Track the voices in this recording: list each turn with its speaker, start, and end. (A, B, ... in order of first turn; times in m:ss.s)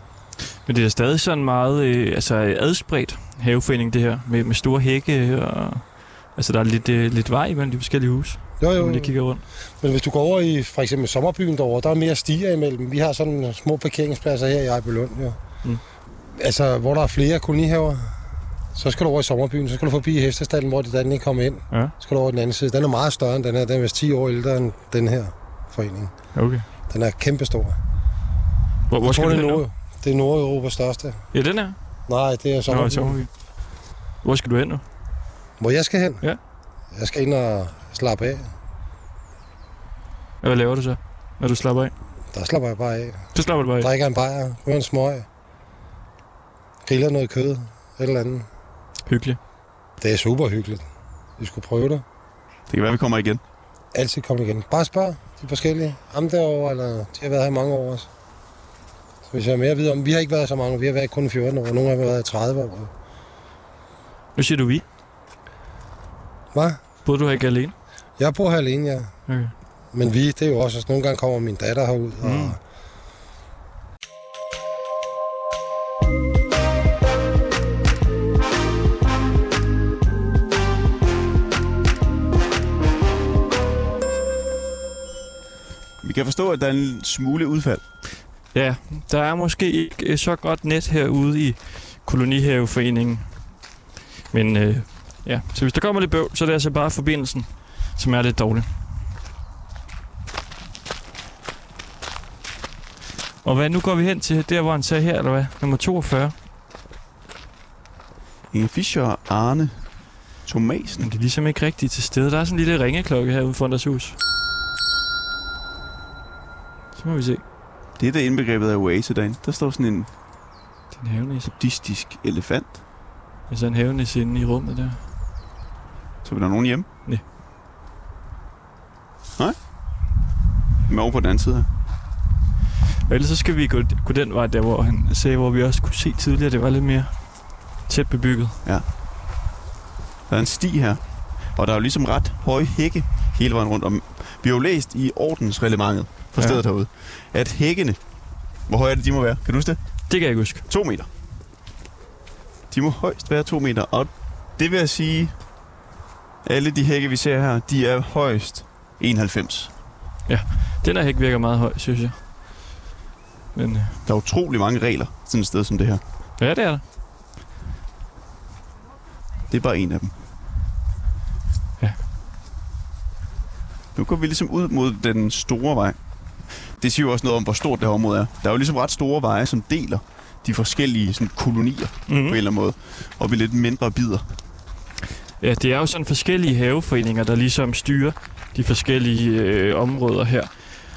0:00.7-0:09.4 A
0:08.6-0:09.1 B
0:09.8-0:15.4 B
0:16.4-0:18.2 B
0:18.8-0:26.1 B
0:26.4-0:26.6 A
0:26.9-0:27.8 B
0:28.9-0:29.6 A
0:29.0-0:31.2 B
0:31.3-0:31.8 A
0:32.1-0:33.2 B
0:32.7-0:33.3 A
0:34.2-0:34.8 A
0:35.6-0:36.2 B
0:36.9-0:38.5 B
0:40.4-0:41.9 A
0:42.3-0:45.3 B
0:43.4-0:43.9 A
0:46.8-0:48.5 B
0:49.1-0:49.4 A
0:50.0-0:50.8 B
0:51.4-0:52.0 B
0:52.7-0:53.4 C
0:53.9-0:58.1 B
0:59.3-1:02.9 B
1:04.4-1:04.8 A
1:06.5-1:06.8 B
1:07.0-1:07.7 A
1:08.2-1:09.1 B
1:09.3-1:09.5 A
1:09.9-1:12.6 B
1:12.2-1:12.6 A
1:26.0-1:27.8 C
1:28.5-1:33.2 A
1:34.3-1:38.7 A
1:43.4-1:46.3 A
1:48.5-1:49.8 C
1:50.4-1:51.1 C
1:51.0-1:54.2 A
1:57.0-1:57.4 A
1:58.0-2:00.1 C
2:00.9-2:01.5 A
2:01.5-2:02.8 C
2:03.5-2:05.0 A
2:06.2-2:06.9 C
2:10.9-2:11.7 C
2:13.1-2:17.1 A
2:17.9-2:18.6 A
2:20.3-2:21.0 C
2:21.6-2:28.0 C
2:26.4-2:26.6 A
2:28.7-2:29.8 C
2:30.1-2:30.6 A
2:30.7-2:31.1 C
2:32.7-2:35.4 C
2:36.4-2:39.7 C
2:40.3-2:42.2 A
2:43.6-2:44.0 A
2:44.1-2:46.0 C
2:46.4-2:46.8 A
2:49.5-2:50.2 C
2:54.0-2:56.0 C
2:56.8-3:04.3 C
3:02.1-3:02.4 A
3:05.4-3:10.5 A